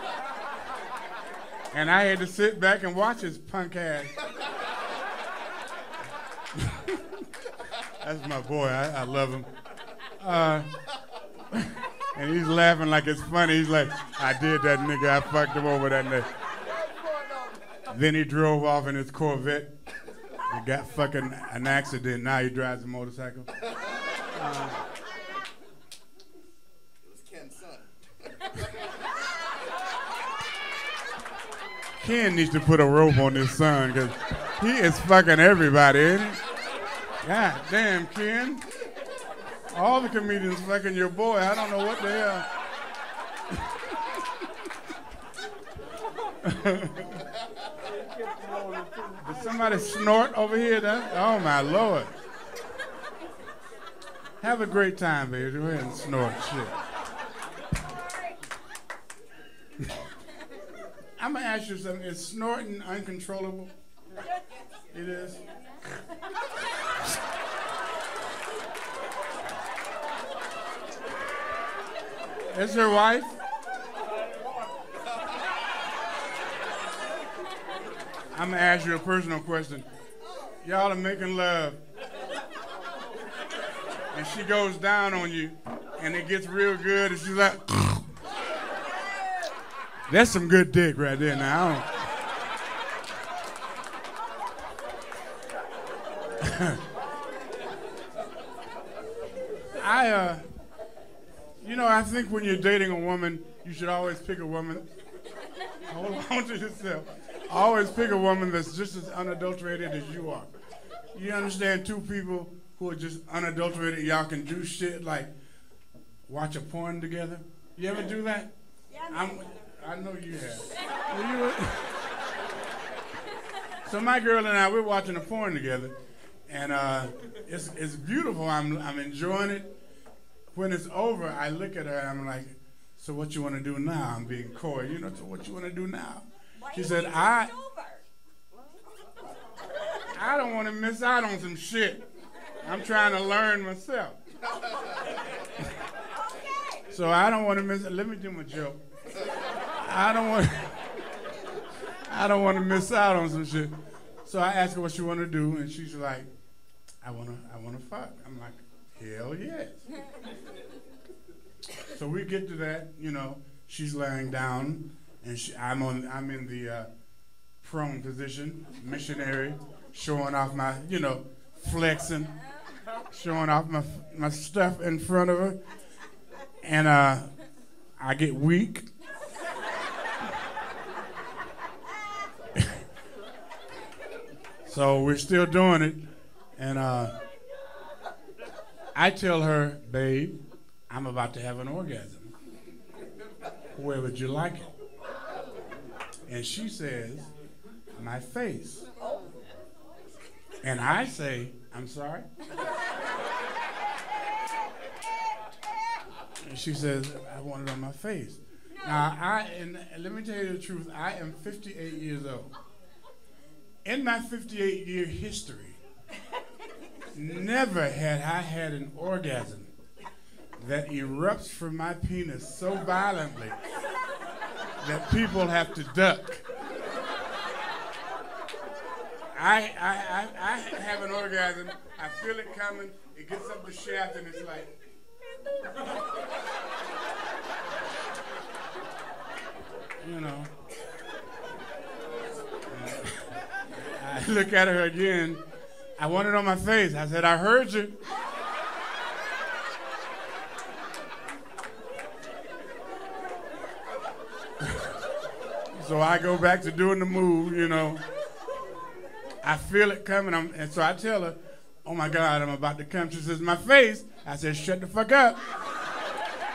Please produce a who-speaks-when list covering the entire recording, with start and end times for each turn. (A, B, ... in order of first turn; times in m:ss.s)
0:01.7-0:04.2 A
0:06.5-0:07.2 A
0:08.0-0:09.5 A
0:10.2-0:10.7 A
0:11.5-0:16.3 A
0:17.9-0:19.7 A
0:20.5-0:23.5 A
0:24.3-0:24.8 A
0:32.0-0:36.4 A
0:37.2-0:38.6 A
0:39.7-0:42.4 A
0:46.4-0:47.2 A
0:49.0-0:52.1 A
0:54.4-0:56.8 A
1:01.2-1:03.7 A
1:04.9-1:05.4 A
1:12.5-1:13.4 A
1:18.3-1:19.8 A
1:20.6-1:21.8 A
1:24.1-1:28.1 A
1:30.1-1:31.9 A
1:36.4-1:36.8 A
1:39.8-1:40.4 A
1:41.6-1:44.8 A
1:45.9-1:50.5 A
1:51.1-1:55.3 A
1:56.3-1:58.5 A
1:59.1-2:01.9 A
2:03.8-2:05.9 A
2:06.5-2:09.7 A
2:10.5-2:17.6 A
2:20.1-2:22.0 A
2:22.6-2:24.2 A
2:26.9-2:28.8 A
2:29.7-2:30.8 A
2:32.1-2:33.7 A
2:34.2-2:36.3 A
2:37.0-2:39.8 A
2:41.9-2:46.9 A
2:47.6-2:52.3 A
2:53.1-2:55.6 A
2:56.6-2:57.3 A
2:58.0-2:58.8 A
3:04.6-3:06.0 A
3:06.6-3:07.1 A
3:08.9-3:10.4 A
3:10.9-3:12.3 A
3:13.7-3:14.7 A
3:16.3-3:17.3 A
3:18.0-3:18.9 A
3:20.6-3:22.2 A
3:26.4-3:32.5 A
3:33.8-3:35.8 A
3:37.1-3:39.7 A
3:40.6-3:43.6 A
3:44.8-3:46.4 A
3:49.3-3:54.7 A
4:00.0-4:00.5 A
4:02.7-4:03.3 A
4:03.8-4:05.4 A
4:06.0-4:08.0 A
4:14.6-4:14.9 A
4:15.7-4:18.0 A
4:19.4-4:25.4 A